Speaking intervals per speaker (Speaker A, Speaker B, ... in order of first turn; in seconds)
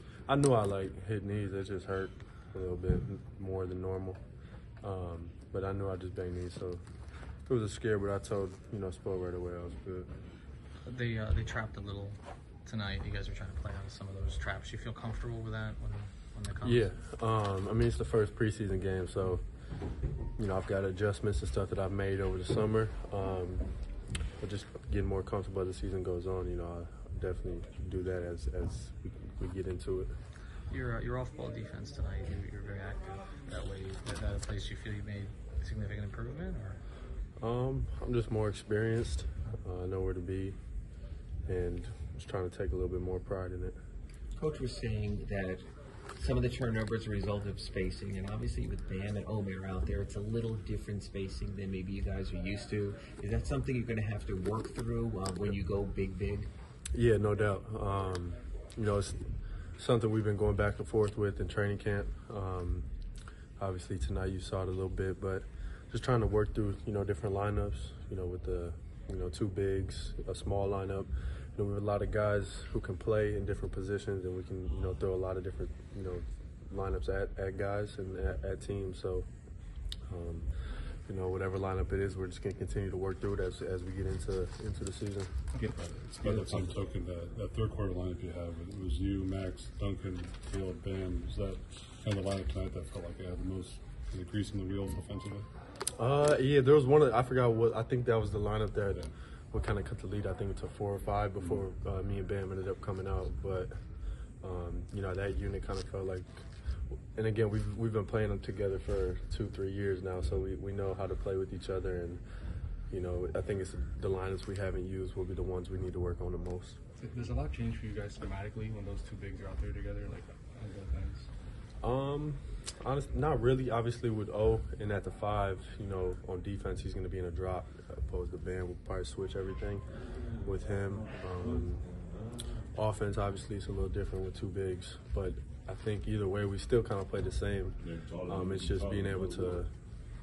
Speaker A: 0.3-4.2, 4.8-6.8, 7.5-10.1, 16.6-19.4, 20.4-23.7, 24.4-30.1, 37.4-40.6, 41.5-43.8, 56.9-62.9, 63.6-79.3, 80.1-85.3, 96.0-103.8, 104.4-106.5, 107.1-112.2, 112.9-116.8, 121.8-129.8, 130.4-131.9, 132.7-139.7
Speaker B: 10.8-16.9, 30.7-36.8
Speaker C: 44.4-45.6, 46.2-56.5
Speaker D: 85.5-86.7, 117.0-121.3
Speaker E: 85.9-95.5